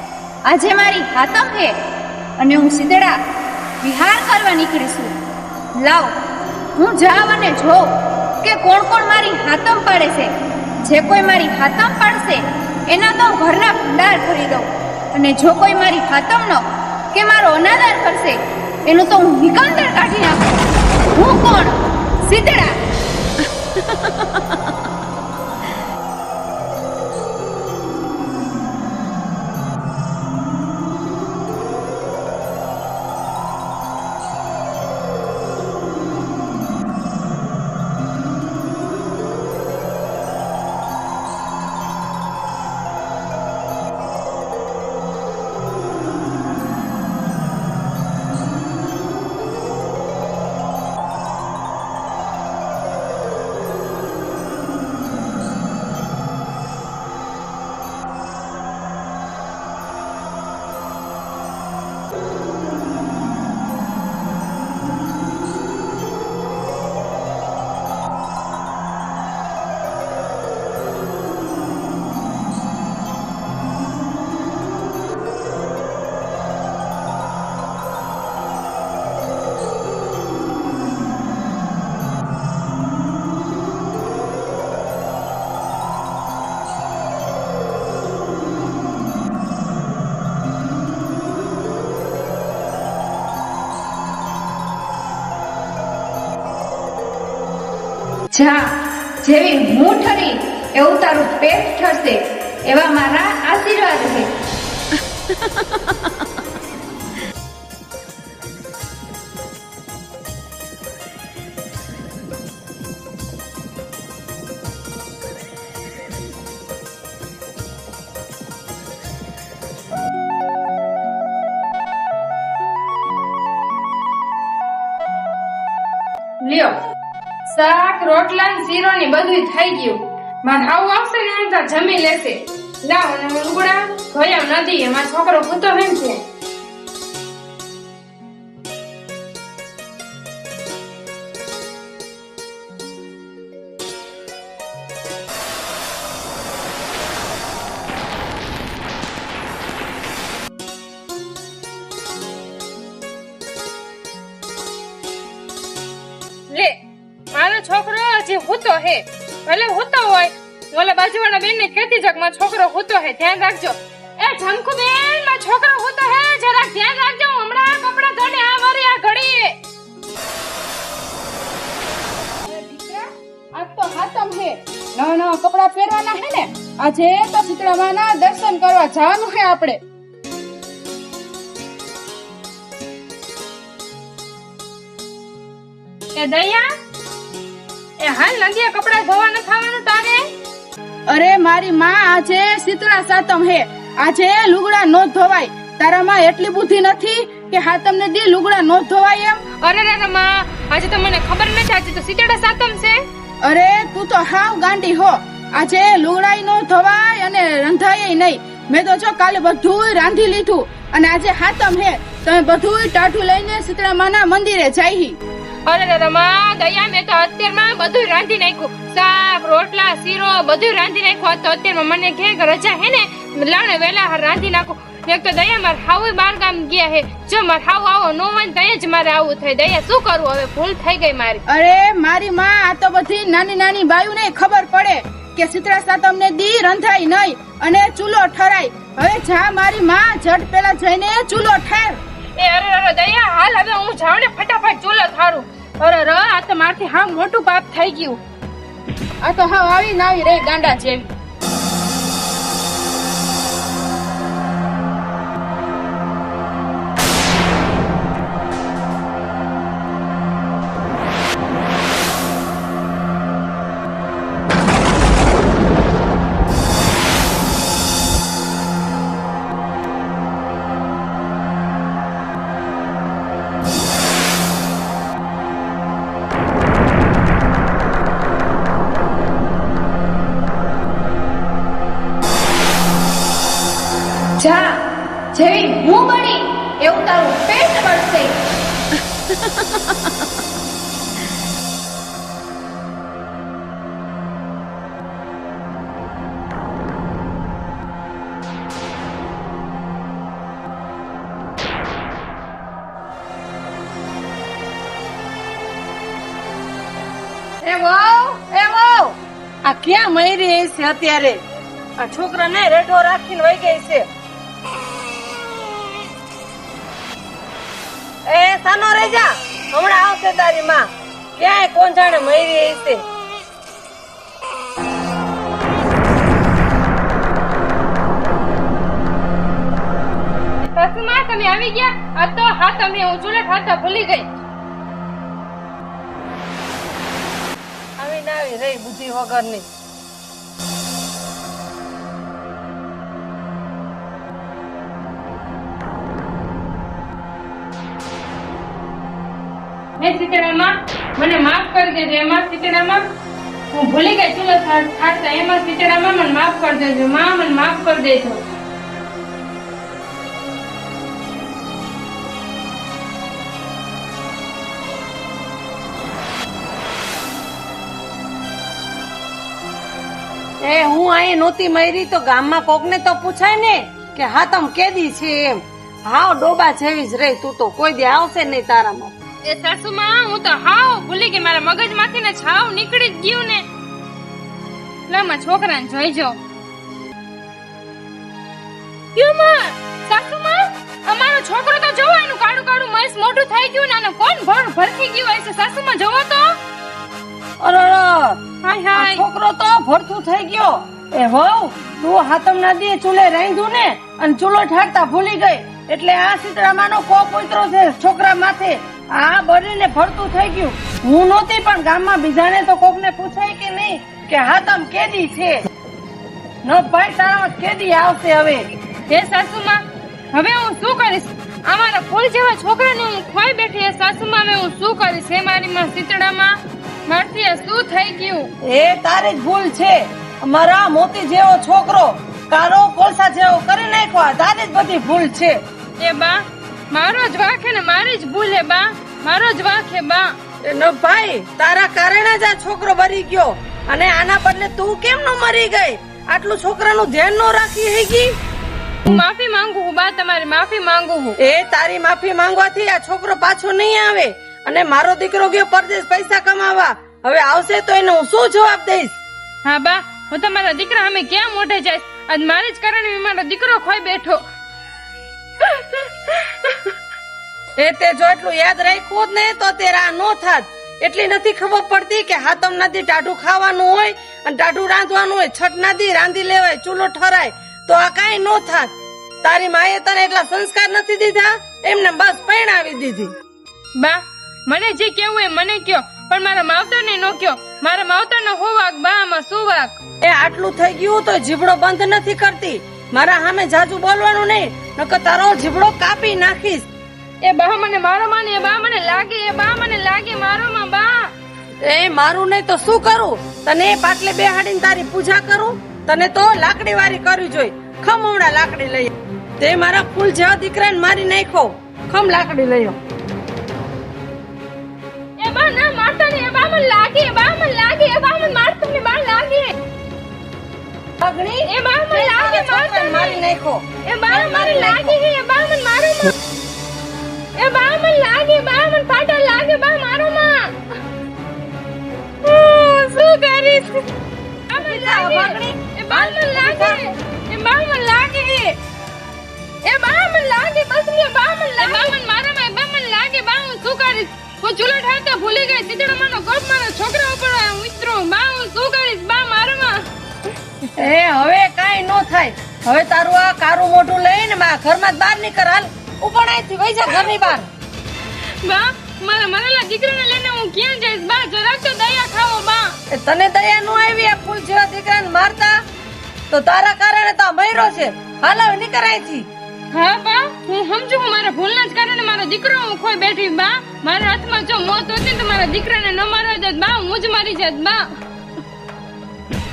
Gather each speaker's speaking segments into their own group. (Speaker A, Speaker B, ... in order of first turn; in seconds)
Speaker A: 0.5-1.8, 2.4-3.2, 3.8-5.1, 5.8-6.1, 6.8-7.8, 8.4-10.3, 10.8-16.6, 17.1-20.5, 21.1-21.8, 22.3-22.8, 98.3-104.3, 284.4-284.8, 285.3-288.3
Speaker B: 126.4-126.8, 127.5-136.2, 156.5-156.8, 157.3-169.6, 186.2-186.7, 188.0-190.3, 199.6-203.0, 215.7-231.4, 242.4-248.2, 330.7-334.3, 350.0-353.1, 353.7-358.4, 379.5-383.6, 385.1-386.4, 389.1-396.6, 398.6-399.2, 419.1-426.6, 427.1-428.5, 436.0-440.3, 449.1-451.4, 459.6-464.4, 465.6-466.9, 484.0-490.0, 497.4-501.3, 515.4-519.8, 521.6-523.4, 524.1-526.4, 527.6-530.8, 532.4-534.0, 534.7-538.8, 539.9-550.1, 558.4-563.0, 569.9-578.2
Speaker C: 172.4-179.8, 191.1-199.4, 203.4-215.2, 231.5-242.0, 249.2-251.1
Speaker D: 307.6-311.4, 312.0-314.1, 318.3-323.0, 338.0-339.7, 370.6-379.1, 397.6-398.4, 398.9-415.6, 416.6-418.7, 428.7-435.6, 440.6-448.3, 451.4-459.2, 467.8-483.3, 490.2-496.9, 501.8-513.0, 521.2-525.2, 534.7-537.0, 551.0-557.7, 563.1-565.8, 566.5-569.5